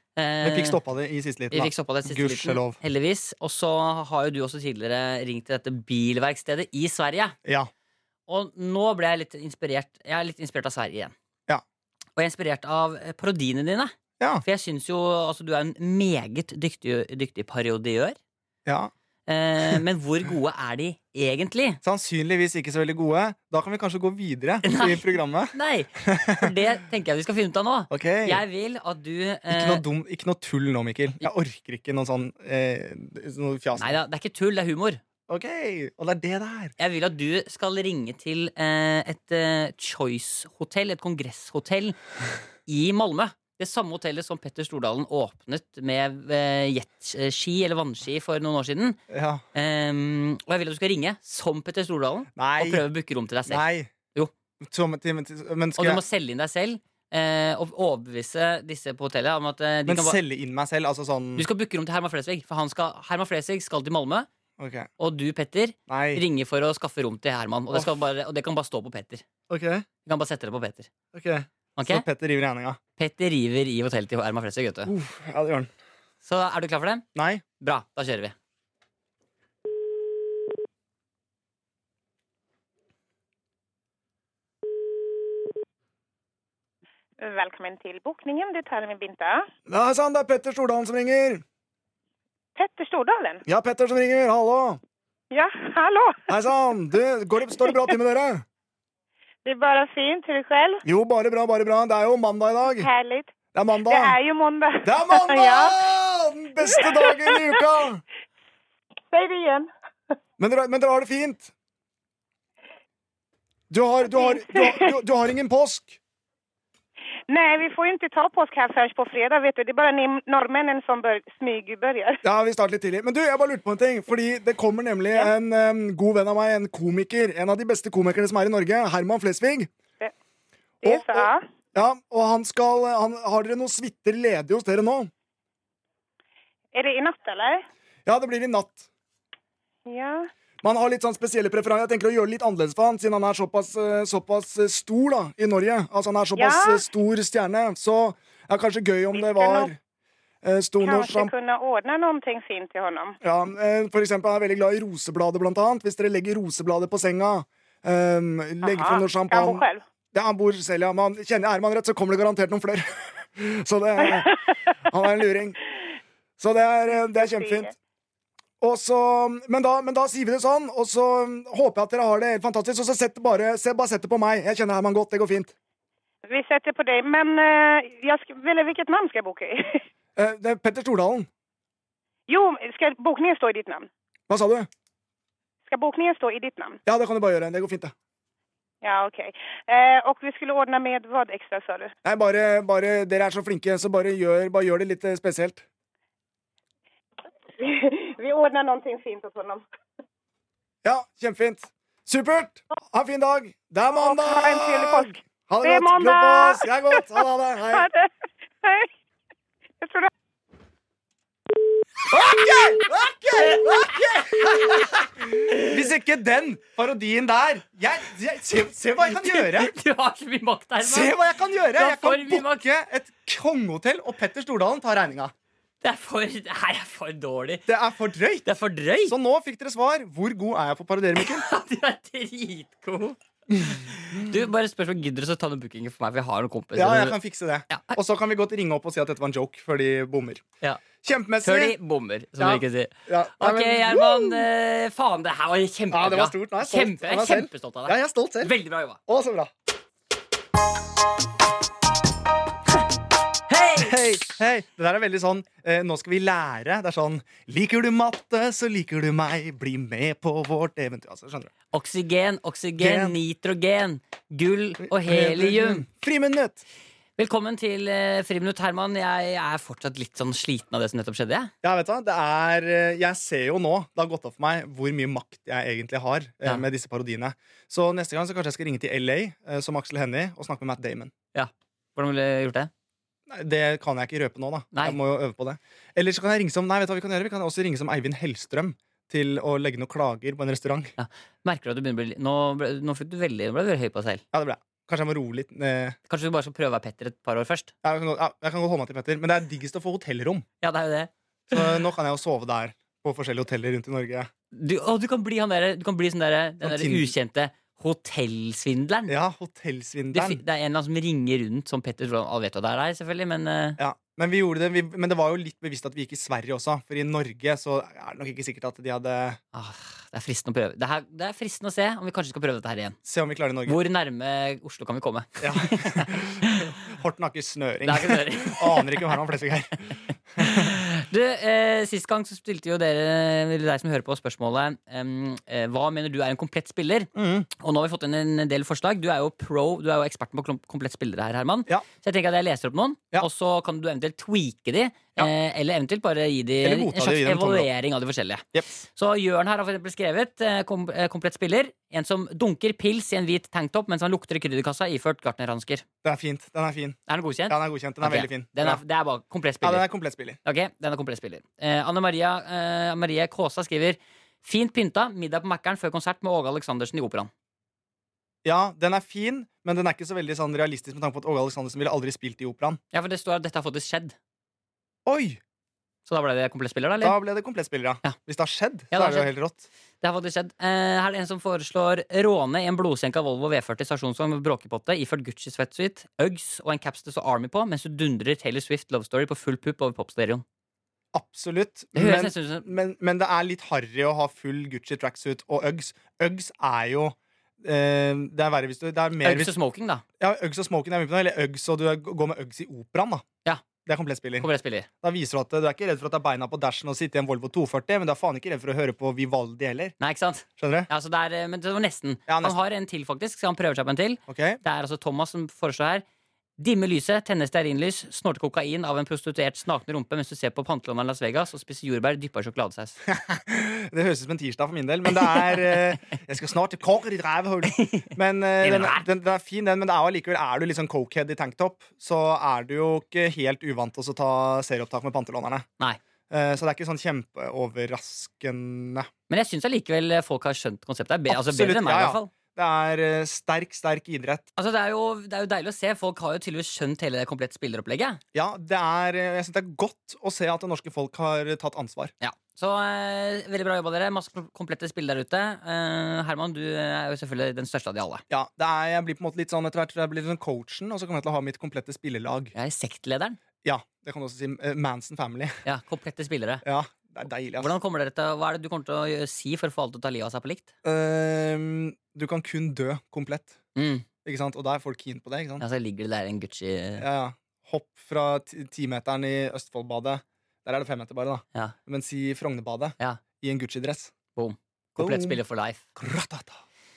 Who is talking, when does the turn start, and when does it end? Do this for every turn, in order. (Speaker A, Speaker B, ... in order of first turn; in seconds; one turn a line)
Speaker A: 0.1-0.8
Speaker B: 0.4-2.8
Speaker A: 1.5-7.3
Speaker B: 7.4-7.7
Speaker A: 8.3-11.1
Speaker A: 12.2-18.2
Speaker B: 14.2-14.4
Speaker B: 18.6-18.9
Speaker A: 19.3-21.8
Speaker B: 21.8-26.5
Speaker A: 24.6-29.8
Speaker B: 27.9-28.4
Speaker B: 29.5-34.0
Speaker A: 33.8-35.0
Speaker B: 35.3-36.7
Speaker A: 36.8-42.0
Speaker A: 42.6-49.0
Speaker B: 49.1-49.4
Speaker A: 49.5-53.6
Speaker B: 52.4-52.8
Speaker B: 53.5-53.9
Speaker B: 54.6-56.0
Speaker A: 55.8-60.2
Speaker B: 59.9-61.5
Speaker A: 61.4-64.3
Speaker B: 64.6-64.9
Speaker A: 65.0-69.2
Speaker B: 65.9-66.2
Speaker B: 69.5-69.8
Speaker A: 70.0-70.9
Speaker B: 71.1-72.8
Speaker A: 71.8-72.0
Speaker A: 73.0-74.9
Speaker B: 74.8-75.7
Speaker A: 76.2-77.0
Speaker B: 77.1-77.4
Speaker A: 77.6-78.3
Speaker C: 87.2-89.5
Speaker B: 89.7-91.4
Speaker C: 92.5-93.4
Speaker B: 93.5-94.8
Speaker C: 95.3-96.3
Speaker B: 96.3-98.4
Speaker C: 99.4-100.8
Speaker B: 100.8-102.9
Speaker C: 102.8-103.3
Speaker B: 103.5-104.2
Speaker C: 103.8-105.9
Speaker B: 104.8-108.0
Speaker C: 106.6-107.6
Speaker C: 109.1-109.7
Speaker B: 110.4-111.5
Speaker B: 113.7-116.0
Speaker C: 114.0-114.9
Speaker C: 117.3-122.2
Speaker B: 122.2-129.7
Speaker C: 130.8-131.4
Speaker B: 130.8-135.1
Speaker C: 136.7-137.6
Speaker B: 138.1-138.9
Speaker C: 139.8-140.3
Speaker B: 140.6-149.8
Speaker C: 146.3-146.8
Speaker C: 149.1-149.7
Speaker B: 150.4-151.3
Speaker C: 150.8-153.2
Speaker B: 153.2-165.6
Speaker C: 158.6-159.8
Speaker C: 164.1-164.3
Speaker B: 166.4-167.7
Speaker C: 166.9-167.7
Speaker B: 168.6-175.5
Speaker C: 176.3-179.8
Speaker B: 180.2-181.3
Speaker C: 182.3-183.9
Speaker B: 184.3-184.7
Speaker C: 185.7-186.8
Speaker B: 186.8-187.9
Speaker C: 188.8-191.9
Speaker B: 192.0-195.6
Speaker C: 197.6-199.6
Speaker B: 200.8-207.9
Speaker C: 203.9-207.2
Speaker C: 207.7-208.1
Speaker C: 208.6-208.9
Speaker C: 209.8-210.1
Speaker B: 212.1-219.7
Speaker A: 214.4-215.7
Speaker A: 219.0-221.2
Speaker B: 220.8-225.3
Speaker A: 221.7-222.7
Speaker A: 225.8-227.7
Speaker B: 227.7-228.5
Speaker A: 228.4-229.1
Speaker B: 229.1-231.4
Speaker A: 231.2-237.2
Speaker B: 233.5-234.4
Speaker B: 236.8-240.4
Speaker A: 237.7-238.0
Speaker B: 241.0-241.8
Speaker A: 241.4-249.0
Speaker B: 242.4-244.4
Speaker B: 245.9-248.5
Speaker B: 249.1-249.5
Speaker A: 253.5-254.0
Speaker B: 253.8-261.5
Speaker A: 261.7-265.8
Speaker B: 262.8-263.2
Speaker B: 264.8-266.6
Speaker A: 267.2-271.5
Speaker B: 271.6-281.1
Speaker A: 281.3-282.7
Speaker B: 283.3-290.9
Speaker A: 284.7-285.0
Speaker A: 291.0-294.2
Speaker B: 294.3-296.0
Speaker A: 296.1-297.7
Speaker B: 297.8-300.4
Speaker A: 300.6-301.8
Speaker B: 301.5-304.3
Speaker A: 304.5-309.1
Speaker B: 306.6-307.1
Speaker B: 309.1-310.4
Speaker A: 310.1-313.8
Speaker B: 313.8-319.4
Speaker A: 319.5-323.0
Speaker B: 323.0-323.8
Speaker A: 323.6-326.7
Speaker B: 325.4-330.8
Speaker A: 327.8-329.2
Speaker A: 330.4-355.8
Speaker B: 337.1-337.5
Speaker B: 346.6-347.7
Speaker B: 356.0-358.8
Speaker A: 357.1-359.8
Speaker B: 359.6-360.4
Speaker A: 360.4-367.3
Speaker B: 368.4-372.8
Speaker A: 372.9-374.1
Speaker B: 375.1-375.4
Speaker A: 376.1-377.2
Speaker B: 377.0-379.6
Speaker A: 378.9-379.3
Speaker A: 380.0-390.4
Speaker B: 391.1-399.5
Speaker A: 391.9-392.7
Speaker A: 399.2-400.0
Speaker B: 400.2-403.2
Speaker B: 403.8-404.5
Speaker A: 404.4-404.9
Speaker B: 405.0-409.9
Speaker A: 410.0-416.0
Speaker B: 410.6-410.9
Speaker B: 412.3-412.6
Speaker B: 414.3-414.6
Speaker A: 416.6-423.0
Speaker B: 423.1-435.6
Speaker A: 425.2-425.8
Speaker A: 427.7-429.1
Speaker B: 436.3-439.1
Speaker A: 439.3-442.3
Speaker B: 441.3-444.5
Speaker A: 444.6-448.2
Speaker B: 448.3-452.1
Speaker A: 452.2-458.2
Speaker B: 458.3-462.5
Speaker A: 462.5-463.4
Speaker B: 463.6-465.6
Speaker A: 465.6-466.6
Speaker B: 466.6-467.7
Speaker A: 467.6-470.7
Speaker B: 470.8-473.6
Speaker A: 473.8-474.1
Speaker B: 474.2-475.6
Speaker A: 475.6-477.1
Speaker B: 477.0-484.1
Speaker A: 484.3-485.8
Speaker B: 485.0-485.4
Speaker B: 485.9-486.6